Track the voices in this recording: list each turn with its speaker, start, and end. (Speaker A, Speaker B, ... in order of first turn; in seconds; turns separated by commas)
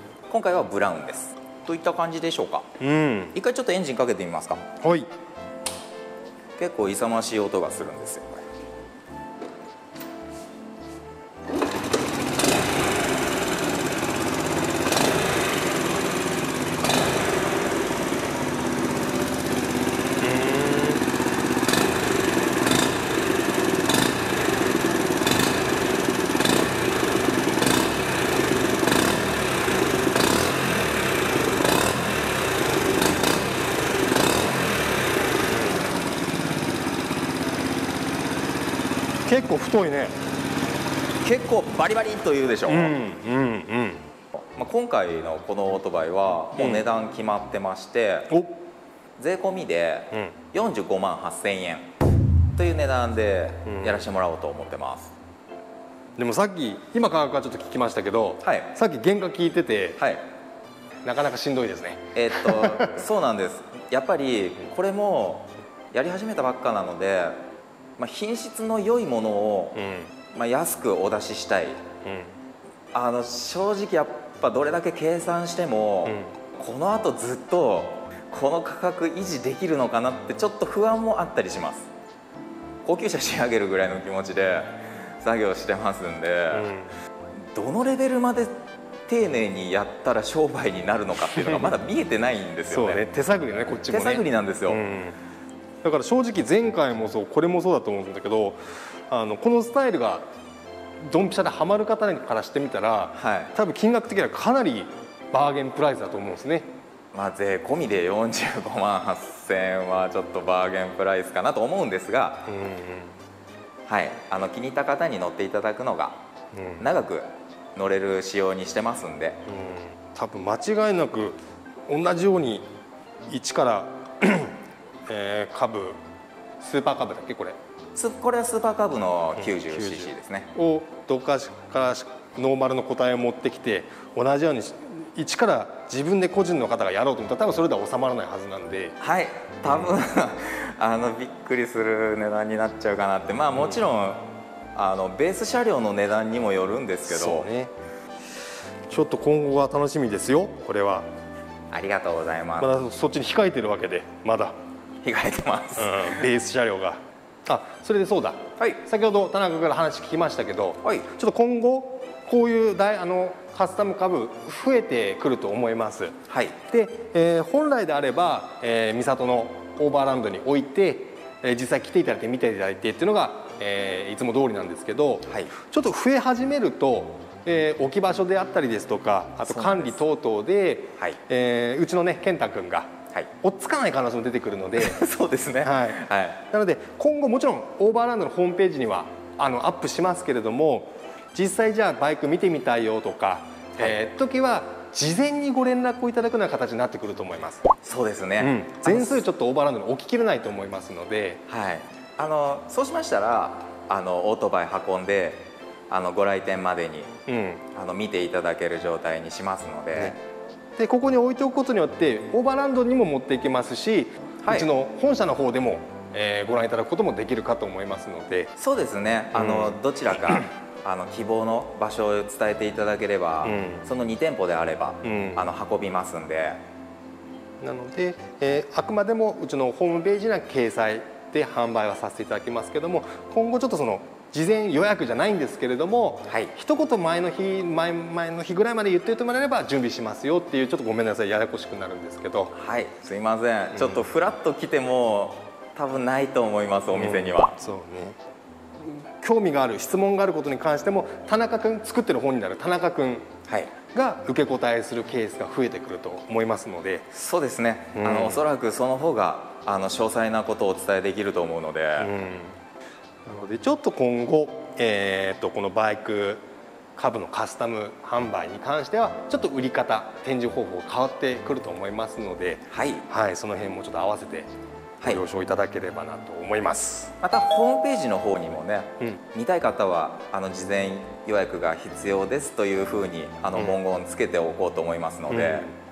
Speaker A: 0.3-2.7, Speaker B: 2.8-3.3, Speaker A: 3.3-4.6, Speaker B: 4.8-5.1, Speaker A: 6.6-8.5, Speaker B: 20.2-21.0, Speaker B: 35.6-35.8, Speaker B: 39.2-40.1, Speaker A: 41.2-43.0, Speaker B: 42.7-44.1, Speaker A: 44.3-48.3, Speaker B: 46.6-46.8, Speaker A: 49.2-51.9, Speaker B: 50.1-50.4, Speaker A: 52.5-55.1, Speaker B: 53.6-54.0, Speaker B: 56.2-60.0, Speaker A: 58.4-58.7, Speaker A: 60.0-60.2, Speaker B: 61.0-63.0, Speaker A: 62.1-67.4, Speaker A: 68.0-71.8, Speaker B: 69.7-70.1, Speaker B: 72.0-72.3, Speaker A: 72.9-81.9, Speaker B: 76.0-76.3, Speaker A: 82.8-86.7, Speaker B: 86.5-87.0, Speaker A: 87.3-93.0, Speaker B: 91.3-91.7, Speaker B: 92.7-95.2, Speaker A: 93.9-94.8, Speaker B: 95.8-100.2, Speaker B: 101.0-106.7, Speaker A: 103.1-103.5, Speaker A: 107.1-112.5, Speaker B: 112.5-113.2, Speaker A: 113.8-116.2, Speaker B: 116.5-116.8, Speaker A: 116.8-119.4, Speaker B: 119.5-122.7, Speaker B: 123.3-126.0, Speaker B: 126.6-127.6, Speaker A: 127.9-130.5, Speaker B: 129.4-139.0, Speaker A: 139.0-147.5, Speaker B: 147.1-147.7, Speaker B: 148.9-151.1, Speaker A: 151.7-152.7, Speaker B: 152.6-154.5, Speaker A: 155.0-156.2, Speaker B: 155.8-185.0, Speaker A: 160.8-161.1, Speaker A: 166.3-166.6, Speaker A: 179.4-180.0, Speaker A: 184.8-186.4, Speaker B: 185.6-197.7, Speaker A: 197.8-199.2, Speaker B: 198.4-201.4, Speaker A: 201.5-207.1, Speaker B: 207.3-207.6, Speaker A: 207.7-210.2, Speaker B: 210.8-218.5, Speaker A: 214.4-214.7, Speaker A: 218.6-226.6, Speaker B: 219.3-219.8, Speaker B: 223.4-223.8, Speaker B: 225.0-225.4, Speaker B: 227.6-242.5, Speaker A: 242.5-247.6, Speaker B: 243.8-244.0, Speaker B: 246.9-248.2, Speaker B: 248.8-253.3, Speaker A: 253.4-253.7, Speaker B: 253.9-257.1, Speaker A: 257.1-262.1, Speaker B: 257.9-258.4, Speaker B: 262.0-262.6, Speaker B: 263.2-266.4, Speaker B: 267.0-274.5, Speaker A: 272.7-273.0, Speaker B: 275.0-277.1, Speaker A: 277.2-285.7, Speaker B: 285.3-285.7